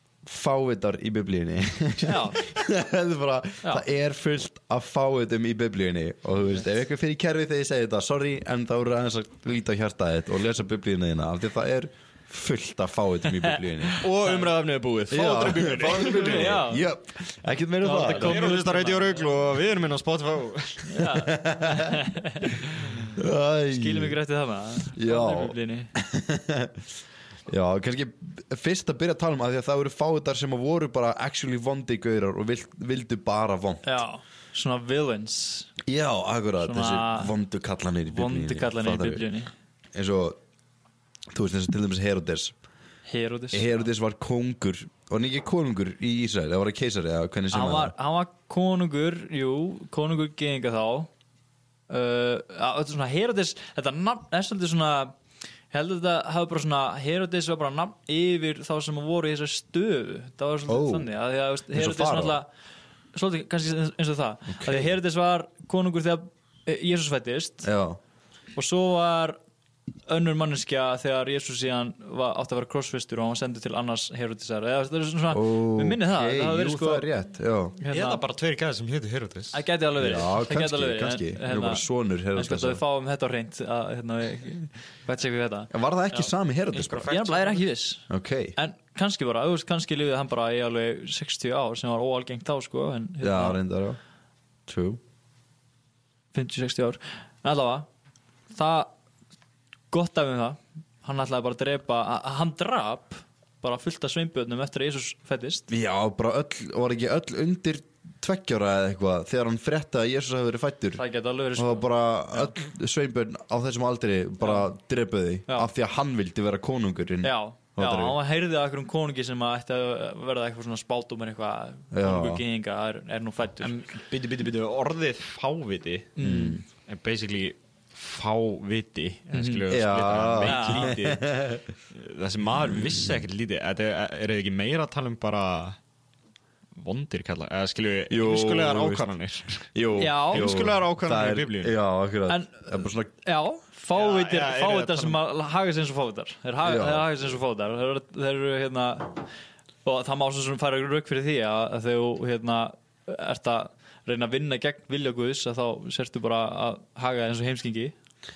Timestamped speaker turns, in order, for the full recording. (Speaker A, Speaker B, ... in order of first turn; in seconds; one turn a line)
Speaker A: 0.2-14.0
Speaker B: 2.0-2.5
Speaker B: 13.9-14.4
Speaker C: 14.0-16.6
Speaker A: 15.1-18.5
Speaker B: 15.9-16.8
Speaker B: 17.8-19.4
Speaker C: 17.9-21.1
Speaker B: 20.9-23.1
Speaker A: 21.1-22.0
Speaker A: 23.1-24.1
Speaker B: 23.7-25.9
Speaker A: 24.9-26.9
Speaker A: 27.5-34.0
Speaker B: 33.8-35.7
Speaker A: 35.9-39.2
Speaker B: 36.6-37.3
Speaker B: 38.1-39.5
Speaker A: 39.9-40.4
Speaker A: 41.3-42.5
Speaker B: 43.1-43.8
Speaker A: 43.5-47.9
Speaker B: 47.5-51.1
Speaker B: 51.9-55.1
Speaker B: 55.7-62.5
Speaker A: 60.7-61.1
Speaker A: 61.7-62.4
Speaker B: 63.1-67.7
Speaker A: 64.5-64.9
Speaker A: 67.6-68.0
Speaker B: 68.5-69.4
Speaker B: 70.1-77.1
Speaker A: 75.3-77.8
Speaker B: 77.8-78.2
Speaker C: 77.9-79.6
Speaker B: 79.5-86.3
Speaker A: 80.0-82.8
Speaker A: 85.7-87.1
Speaker C: 86.7-87.6
Speaker B: 87.1-93.6
Speaker A: 88.1-88.5
Speaker A: 93.2-94.0
Speaker A: 94.7-95.0
Speaker B: 96.3-97.9
Speaker B: 98.5-98.9
Speaker B: 99.9-105.7
Speaker A: 105.7-111.0
Speaker B: 111.0-112.5
Speaker A: 111.5-118.2
Speaker B: 114.4-114.7
Speaker B: 117.2-123.8
Speaker A: 121.9-122.4
Speaker C: 123.6-126.2
Speaker B: 126.2-126.6
Speaker A: 126.2-126.6
Speaker C: 126.8-131.2
Speaker B: 129.3-129.6
Speaker A: 129.7-131.7
Speaker B: 130.4-130.9
Speaker C: 131.9-135.8
Speaker C: 136.7-139.7
Speaker A: 138.1-139.0
Speaker A: 139.7-143.1
Speaker B: 140.0-140.5
Speaker C: 140.3-141.7
Speaker B: 142.3-149.3
Speaker C: 143.9-145.2
Speaker A: 146.6-147.3
Speaker B: 149.8-157.9